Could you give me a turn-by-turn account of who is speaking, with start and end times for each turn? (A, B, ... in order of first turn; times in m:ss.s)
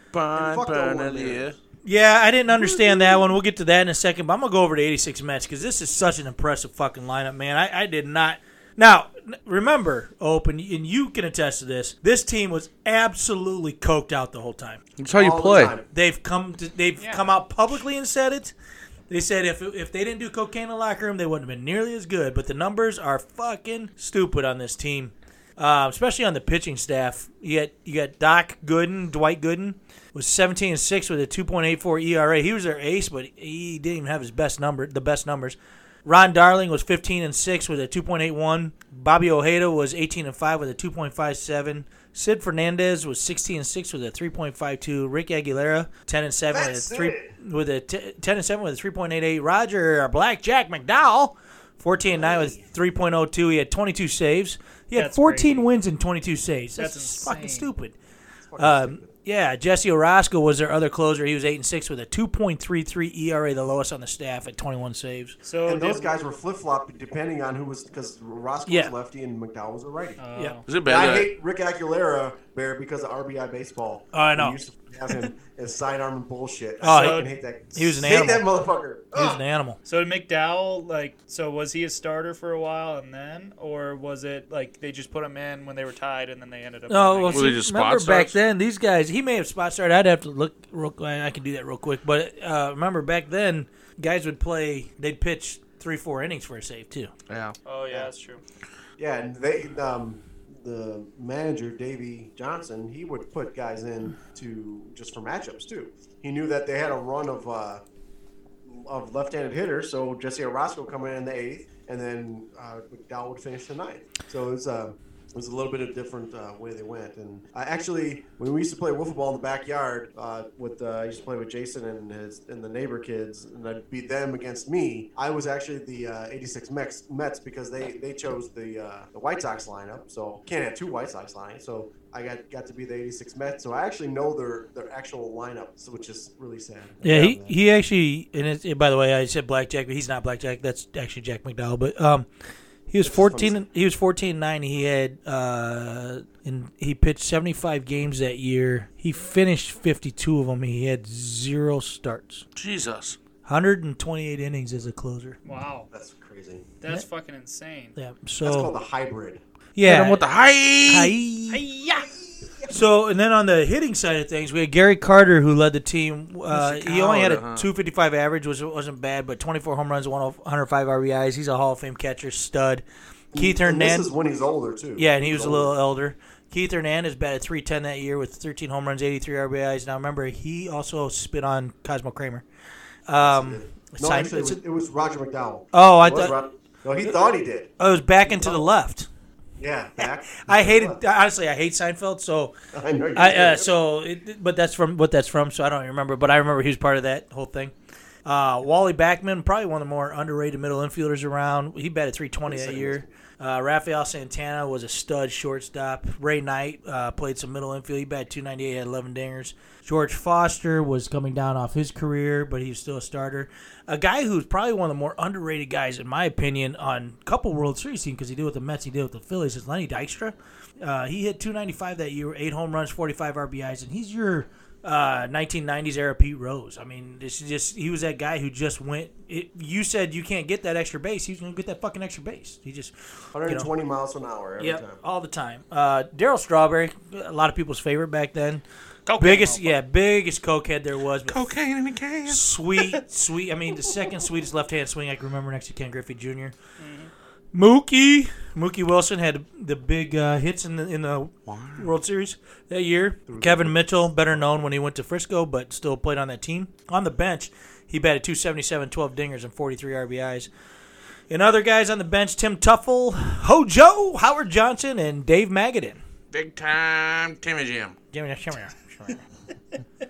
0:00.1-0:01.6 A
0:00.3-0:01.4 B
0:01.8-0:14.8 C
0:02.5-0:03.2 B
0:15.0-0:15.7 A
0:15.1-0:15.9 B
0:15.9-0:18.5 C
0:17.0-0:17.3 D
0:19.1-0:57.9 C
0:46.5-0:47.3 B
0:52.1-0:52.6 B
0:54.9-0:55.6 D
0:56.8-0:57.7 D
0:58.5-0:59.1 B
0:58.6-1:05.4 C
1:05.4-1:06.1 D
1:05.6-1:19.4 B
1:08.7-1:08.9 C
1:10.2-1:10.6 D
1:10.7-1:11.3 A
1:14.1-1:14.6 C
1:16.8-1:18.5 C
1:16.8-1:17.3 D
1:19.1-1:19.8 C
1:19.8-1:27.5 D
1:26.9-1:37.1 C
1:27.3-1:28.4 A
1:37.3-1:37.6 A
1:37.6-1:38.4 D
1:39.0-1:47.8 B
1:48.6-2:17.5 B
2:17.0-2:22.3 C
2:22.9-2:32.4 C
2:23.0-2:23.6 B
2:32.5-2:33.2 A
2:33.4-2:35.4 C
2:35.4-2:35.9 D
2:35.9-2:36.6 B
2:36.8-2:37.9 D
2:38.0-2:38.7 C
2:38.4-2:39.4 B
2:39.8-2:40.2 C
2:39.8-2:41.2 A
2:40.8-2:41.6 C
2:41.5-2:42.1 D
2:42.7-2:54.1 C
2:46.5-2:47.7 A
2:53.3-2:55.7 B
2:55.0-3:02.4 C
3:03.1-3:04.6 C
3:03.2-3:07.7 B
3:05.7-3:06.4 C
3:07.8-3:09.1 C
3:08.2-3:08.7 B
3:09.6-3:11.0 B
3:10.4-3:12.5 C
3:12.7-3:13.7 B
3:13.1-3:17.7 C
3:18.2-3:52.9 C
3:22.5-3:23.1 B
3:53.3-3:55.0 B
3:53.4-3:53.7 C
3:54.6-3:58.6 C
3:59.0-3:59.8 D
3:59.2-4:01.4 C
4:01.3-4:02.4 A
4:02.3-4:06.5 C
4:06.8-4:07.1 D
4:07.5-4:20.5 C
4:11.4-4:11.9 A
4:13.3-4:14.5 B
4:21.3-4:26.0 C
4:26.3-4:28.0 A
4:28.1-4:29.2 C